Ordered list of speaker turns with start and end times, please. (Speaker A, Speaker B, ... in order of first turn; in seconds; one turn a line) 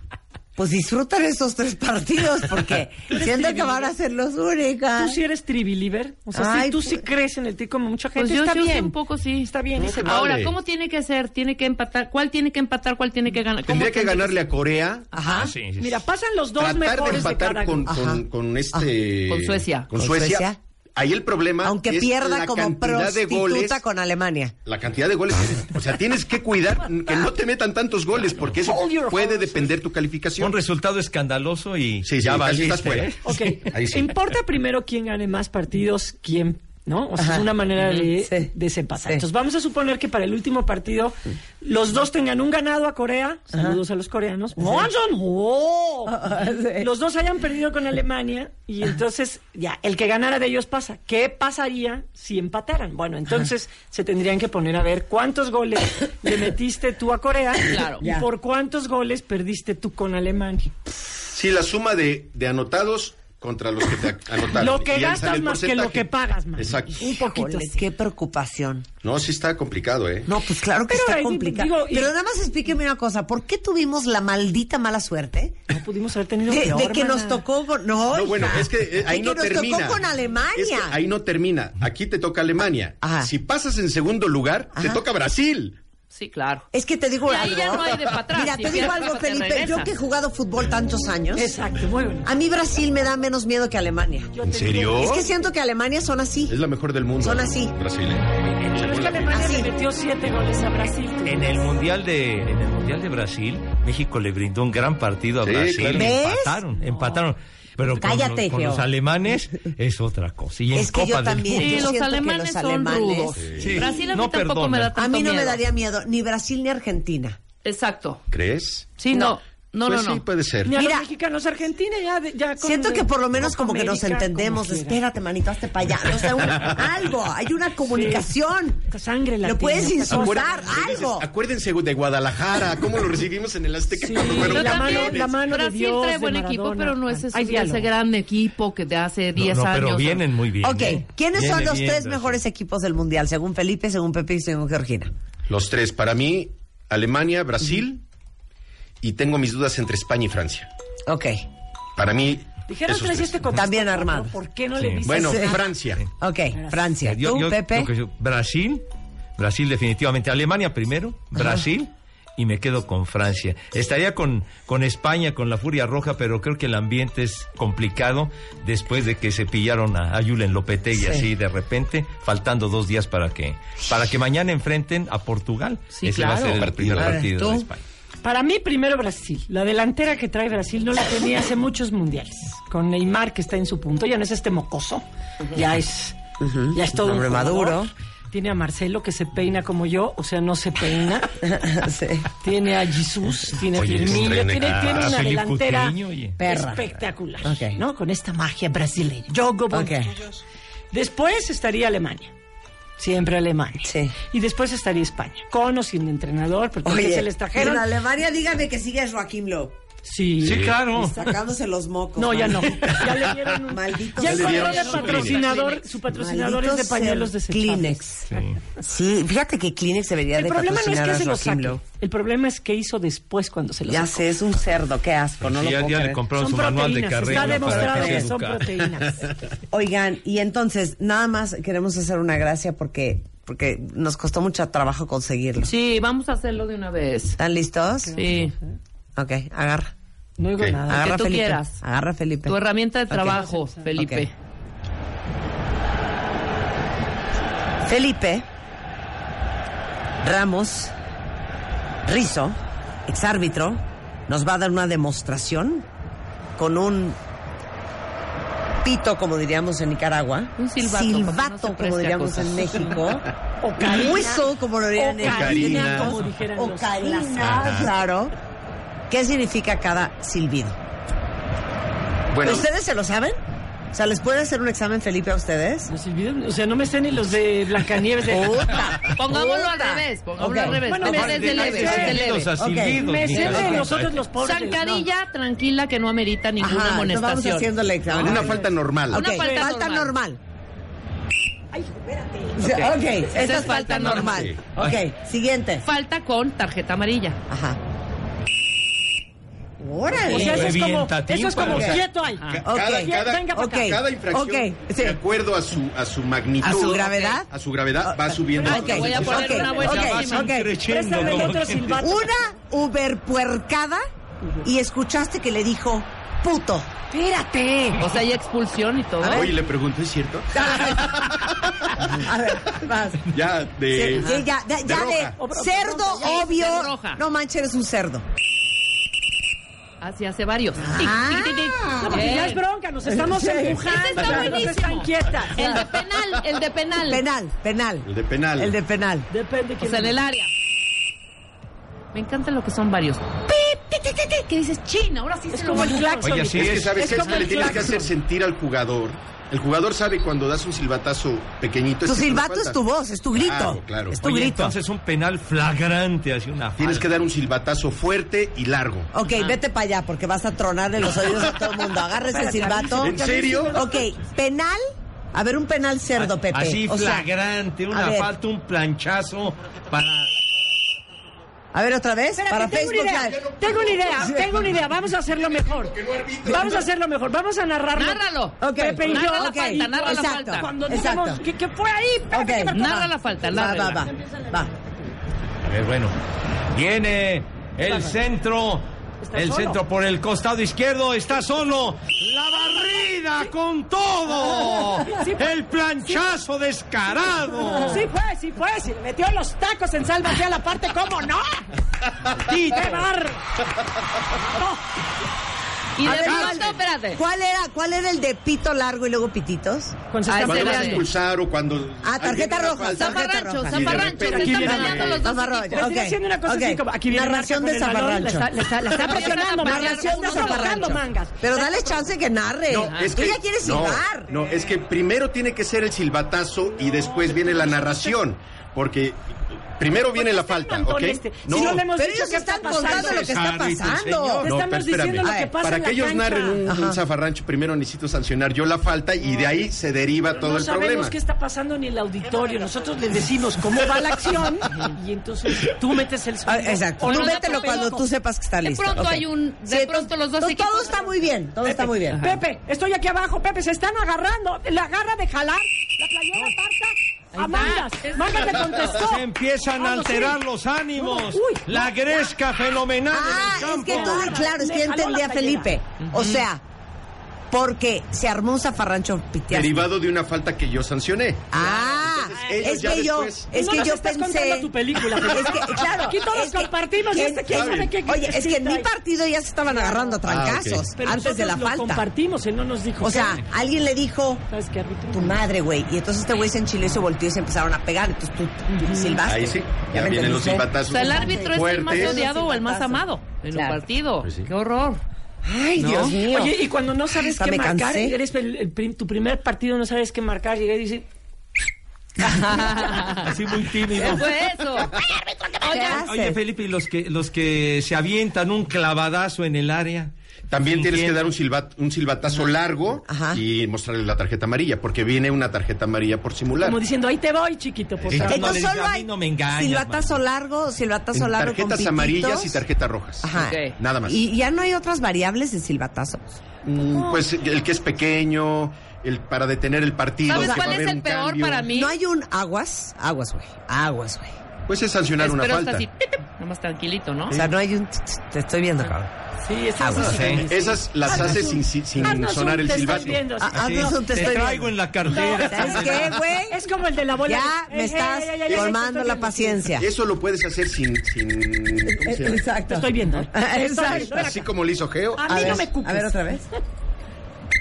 Speaker A: 0.6-5.2
Speaker B: 3.1-3.9
Speaker B: 5.0-10.2
Speaker A: 6.3-7.0
Speaker C: 8.2-14.4
Speaker D: 9.8-10.6
Speaker D: 13.6-15.1
Speaker C: 15.1-15.5
Speaker A: 15.1-15.5
Speaker E: 15.3-16.0
Speaker B: 15.8-17.9
Speaker D: 16.6-23.8
Speaker A: 17.9-18.9
Speaker C: 19.3-19.9
Speaker A: 19.9-20.6
Speaker A: 21.6-24.6
Speaker D: 24.7-30.5
Speaker B: 28.6-29.7
Speaker E: 30.4-33.6
Speaker D: 32.0-34.1
Speaker B: 33.2-60.7
Speaker A: 37.2-37.5
Speaker A: 38.1-38.5
Speaker A: 43.5-43.8
Speaker A: 44.6-44.9
Speaker A: 46.1-46.9
Speaker C: 57.6-58.0
Speaker A: 58.0-58.3
Speaker D: 61.3-67.0
Speaker B: 64.5-67.9
Speaker A: 66.9-68.9
Speaker D: 69.0-70.3
Speaker A: 70.3-75.6
Speaker B: 70.9-72.1
Speaker B: 75.7-77.4
Speaker A: 76.5-81.0
Speaker D: 78.1-85.8
Speaker A: 83.0-83.3
Speaker A: 84.8-85.0
Speaker C: 86.1-86.7
Speaker A: 86.7-91.5
Speaker C: 87.2-89.9
Speaker B: 91.3-92.3
Speaker A: 92.2-94.3
Speaker B: 94.3-95.4
Speaker D: 94.4-95.3
Speaker A: 94.9-96.6
Speaker D: 96.5-99.6
Speaker A: 97.2-97.7
Speaker B: 98.6-101.6
Speaker A: 99.3-99.7
Speaker E: 101.2-111.9
Speaker D: 105.4-106.1
Speaker A: 105.9-106.6
Speaker B: 106.8-107.2
Speaker A: 108.0-108.9
Speaker A: 110.7-113.4
Speaker C: 111.5-115.6
Speaker D: 113.4-114.0
Speaker E: 113.6-115.0
Speaker A: 115.0-117.4
Speaker C: 117.6-118.2
Speaker D: 118.3-119.0
Speaker C: 119.0-120.2
Speaker D: 119.8-120.8
Speaker B: 120.7-125.0
Speaker A: 120.7-121.1
Speaker A: 122.6-128.8
Speaker B: 127.9-128.3
Speaker B: 128.9-130.7
Speaker A: 129.4-131.3
Speaker D: 130.1-135.4
Speaker B: 134.0-137.9
Speaker C: 134.3-140.2
Speaker E: 139.4-142.4
Speaker A: 140.6-145.1
Speaker D: 145.5-148.0
Speaker D: 149.0-150.7
Speaker A: 151.1-151.4
Speaker D: 152.0-153.4
Speaker B: 152.7-155.7
Speaker A: 153.5-154.3
Speaker E: 154.8-155.0
Speaker D: 155.0-156.0
Speaker A: 155.1-155.6
Speaker A: 156.2-157.9
Speaker B: 156.5-156.9
Speaker E: 157.0-158.8
Speaker E: 159.4-177.8
Speaker A: 161.4-161.6
Speaker A: 171.0-171.2
Speaker C: 175.9-176.6
Speaker D: 176.4-177.3
Speaker A: 177.0-177.3
Speaker B: 178.2-186.2
Speaker A: 186.4-187.9
Speaker B: 186.7-191.4
Speaker A: 191.4-192.3
Speaker B: 192.4-200.1
Speaker D: 193.8-195.2
Speaker E: 193.8-196.4
Speaker A: 196.4-196.9
Speaker A: 197.4-197.8
Speaker A: 199.7-200.2
Speaker B: 200.9-202.3
Speaker B: 203.0-207.9
Speaker A: 203.8-204.2
Speaker A: 206.8-209.8
Speaker B: 210.0-210.7
Speaker E: 210.4-211.2
Speaker D: 210.4-210.8
Speaker A: 210.8-214.7
Speaker B: 212.2-218.4
Speaker D: 214.2-215.5
Speaker C: 214.3-215.8
Speaker A: 216.1-221.8
Speaker E: 218.3-218.6
Speaker B: 220.3-224.3
Speaker A: 223.9-226.2
Speaker E: 225.4-228.7
Speaker B: 226.3-229.3
Speaker A: 227.3-228.3
Speaker A: 229.7-235.7
Speaker C: 235.6-237.4
Speaker A: 237.4-238.2
Speaker B: 238.0-238.6
Speaker C: 238.1-238.5
Speaker A: 239.2-239.9
Speaker B: 240.4-241.2
Speaker A: 240.9-242.6
Speaker C: 240.9-241.8
Speaker C: 242.5-244.3
Speaker A: 243.1-243.4
Speaker B: 243.3-243.9
Speaker A: 244.0-244.3
Speaker A: 247.8-248.4
Speaker A: 250.2-250.9
Speaker A: 252.0-252.6
Speaker A: 253.1-255.9
Speaker A: 256.6-257.2
Speaker A: 258.8-268.3
Speaker C: 260.6-263.0
Speaker B: 263.6-267.6
Speaker D: 265.2-266.2
Speaker E: 267.4-267.9
Speaker A: 269.1-270.8
Speaker D: 272.3-272.7
Speaker A: 272.4-273.4
Speaker A: 273.9-275.9
Speaker B: 275.9-278.8
Speaker A: 278.3-281.6
Speaker C: 279.1-282.5
Speaker B: 280.8-282.3
Speaker E: 281.0-284.2
Speaker A: 282.6-283.9
Speaker B: 282.9-285.1
Speaker C: 283.4-283.7
Speaker C: 284.4-287.7
Speaker A: 286.6-290.4
Speaker D: 288.1-289.3
Speaker B: 288.3-288.6
Speaker C: 289.1-290.1
Speaker B: 289.3-289.7
Speaker B: 291.7-293.6
Speaker A: 292.6-295.9
Speaker C: 293.3-294.5
Speaker D: 294.1-294.6
Speaker C: 295.8-297.4
Speaker A: 297.5-297.8
Speaker A: 299.8-300.8
Speaker B: 300.2-304.0
Speaker E: 300.3-302.0
Speaker A: 301.6-302.0
Speaker D: 301.6-302.0
Speaker D: 302.5-309.7
Speaker A: 302.6-305.2
Speaker A: 306.6-307.5
Speaker C: 307.1-307.4
Speaker A: 308.0-310.7
Speaker B: 308.6-312.5
Speaker C: 308.6-310.5
Speaker E: 309.8-312.1
Speaker A: 312.0-314.0
Speaker A: 314.6-316.9
Speaker B: 317.1-318.0
Speaker C: 318.0-319.5
Speaker A: 319.2-319.5
Speaker D: 319.2-322.3
Speaker A: 320.5-321.3
Speaker A: 322.0-323.2
Speaker D: 323.3-325.4
Speaker A: 323.9-328.2
Speaker B: 325.4-326.7
Speaker C: 326.2-327.2
Speaker C: 330.0-332.6
Speaker A: 330.8-332.3
Speaker B: 331.9-335.8
Speaker A: 333.1-334.5
Speaker C: 333.8-337.2
Speaker A: 337.0-339.3
Speaker D: 338.1-338.8
Speaker B: 339.3-340.2
Speaker C: 339.8-340.5
Speaker C: 342.1-343.5
Speaker A: 343.6-344.4
Speaker C: 344.1-346.2
Speaker B: 345.5-348.1
Speaker E: 346.2-347.2
Speaker D: 346.4-352.8
Speaker C: 347.3-347.6
Speaker A: 352.1-354.8
Speaker D: 353.4-354.2
Speaker E: 354.2-357.1
Speaker D: 356.8-359.1
Speaker A: 359.1-364.8
Speaker B: 362.2-364.0
Speaker D: 363.0-363.8
Speaker A: 365.3-367.3
Speaker E: 366.2-370.3
Speaker A: 367.9-368.3
Speaker A: 371.7-373.5
Speaker B: 372.4-384.6
Speaker D: 373.3-374.8
Speaker D: 375.6-376.9
Speaker C: 377.9-380.7
Speaker A: 378.6-381.4
Speaker A: 382.3-384.7
Speaker C: 382.7-384.1
Speaker E: 385.6-386.1
Speaker E: 386.7-398.0
Speaker B: 387.8-388.1
Speaker B: 389.2-389.8
Speaker B: 395.0-396.3
Speaker B: 397.8-401.7
Speaker B: 402.5-403.4
Speaker E: 402.5-403.1
Speaker B: 404.3-404.8
Speaker C: 406.0-407.2
Speaker A: 406.0-410.0
Speaker B: 410.1-411.1
Speaker C: 410.3-411.1
Speaker D: 410.4-415.3
Speaker A: 412.0-424.4
Speaker C: 412.9-415.9
Speaker B: 414.1-415.2
Speaker B: 415.7-422.1
Speaker C: 418.9-421.0
Speaker D: 422.7-431.8
Speaker C: 422.8-423.2
Speaker B: 426.8-428.2
Speaker B: 430.1-433.3
Speaker A: 431.5-434.5
Speaker E: 432.9-434.5
Speaker B: 434.4-436.6
Speaker D: 434.4-441.1
Speaker A: 435.2-435.5
Speaker A: 436.7-437.0
Speaker B: 440.3-448.0
Speaker A: 446.5-452.2
Speaker C: 447.1-448.0
Speaker C: 448.6-451.0
Speaker B: 451.6-460.4
Speaker C: 452.1-452.4
Speaker C: 457.3-458.7
Speaker E: 458.9-464.4
Speaker B: 461.0-462.3
Speaker A: 463.1-466.6
Speaker B: 463.2-465.7
Speaker C: 466.0-466.4
Speaker A: 467.5-469.9
Speaker D: 469.5-473.5
Speaker A: 471.5-482.1
Speaker B: 473.5-478.9
Speaker D: 477.5-478.0
Speaker B: 479.7-480.2
Speaker D: 480.2-480.9
Speaker B: 481.0-483.4
Speaker A: 483.0-484.4
Speaker B: 484.5-485.4
Speaker A: 485.1-493.8
Speaker B: 488.7-489.2
Speaker D: 489.3-492.2
Speaker C: 490.9-495.0
Speaker D: 494.2-494.5
Speaker A: 495.4-496.6
Speaker C: 495.8-496.1
Speaker B: 496.3-501.1
Speaker A: 497.1-498.2
Speaker C: 502.3-503.3
Speaker E: 503.1-504.3
Speaker C: 504.0-504.9
Speaker A: 504.8-506.4
Speaker C: 505.6-506.0
Speaker E: 505.7-511.3
Speaker D: 510.5-516.8
Speaker A: 513.1-513.4
Speaker B: 516.6-518.6
Speaker D: 518.0-518.4
Speaker E: 518.1-520.2
Speaker A: 518.2-522.6
Speaker D: 521.1-524.2
Speaker A: 523.2-526.4
Speaker C: 523.4-523.8
Speaker D: 526.6-531.7
Speaker B: 526.9-527.2
Speaker C: 530.3-531.9
Speaker A: 530.3-530.8
Speaker A: 531.7-534.4
Speaker D: 534.7-535.9
Speaker C: 535.2-537.4
Speaker A: 537.3-539.1
Speaker B: 539.4-544.3
Speaker A: 539.8-540.4
Speaker E: 540.0-540.5
Speaker D: 540.4-543.2
Speaker A: 543.4-546.6
Speaker E: 543.5-546.1
Speaker B: 545.1-549.7
Speaker A: 547.2-549.9
Speaker D: 549.8-552.5
Speaker A: 551.9-554.3
Speaker B: 552.7-554.5
Speaker D: 553.9-555.6
Speaker B: 555.2-556.3
Speaker A: 555.3-556.5